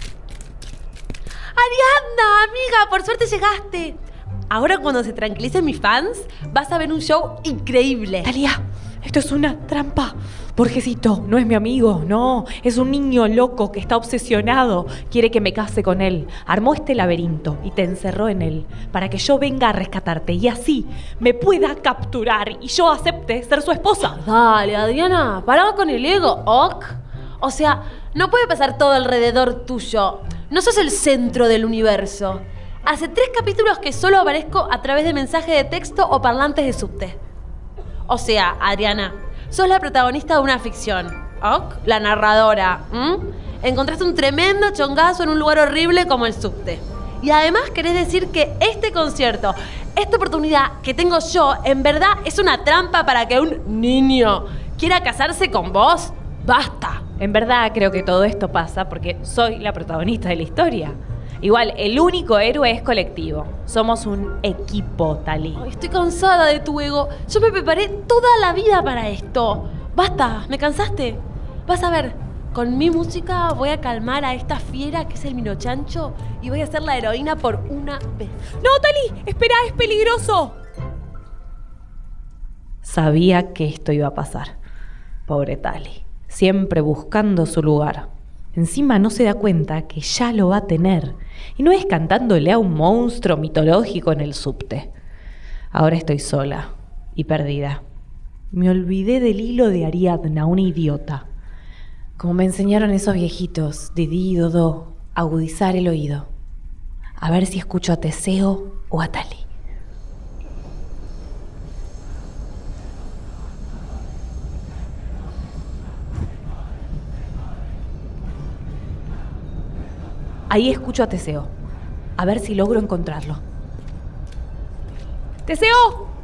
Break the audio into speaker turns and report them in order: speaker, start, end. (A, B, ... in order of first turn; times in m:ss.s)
0:01.5-0:08.3 A
0:08.2-0:24.2 B
0:24.0-0:37.2 A
0:38.1-0:57.0 A
0:57.2-1:05.6 B
1:05.5-1:18.5 A
1:18.6-1:20.5 B
1:22.8-1:24.6 B
1:25.3-1:34.9 B
1:35.7-1:37.8 B
1:38.5-1:41.2 B
1:42.2-1:46.3 B
1:47.2-1:49.4 B
2:00.5-2:01.5 B
2:02.2-2:03.4 B
2:05.5-2:06.1 B